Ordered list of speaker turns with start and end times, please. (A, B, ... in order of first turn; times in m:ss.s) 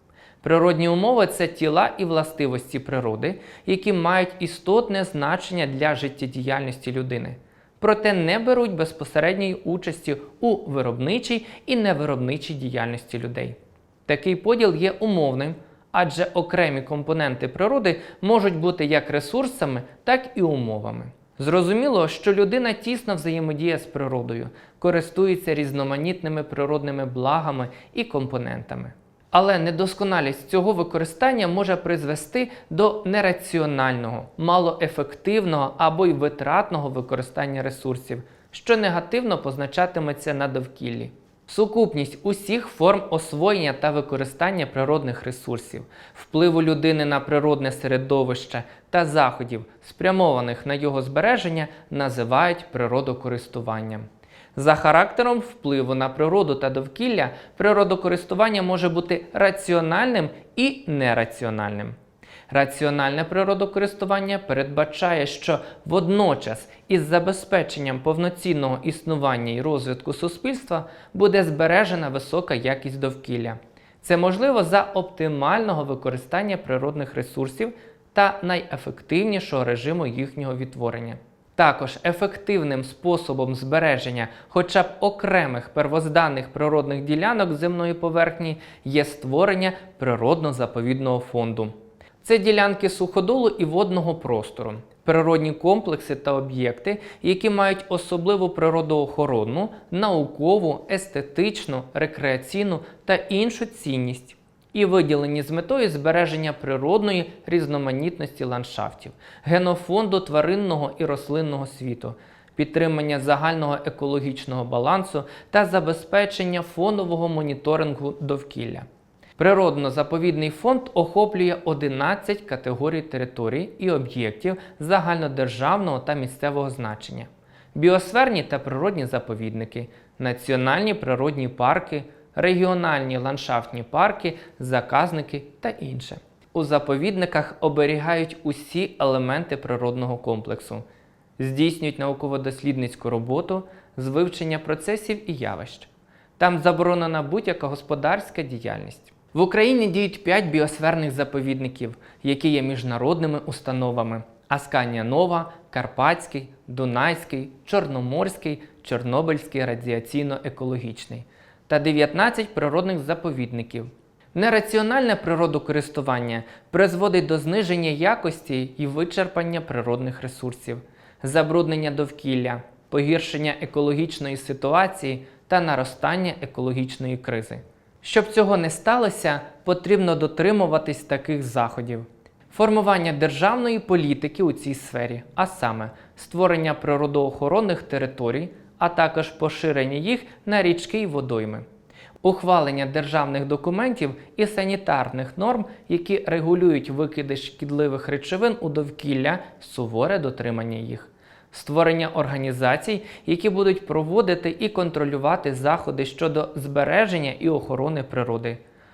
0:00.4-1:02.0 A
1:02.5-1:58.9 A
1:59.4-2:20.8 A
2:21.4-3:11.6 A
3:12.2-3:28.6 A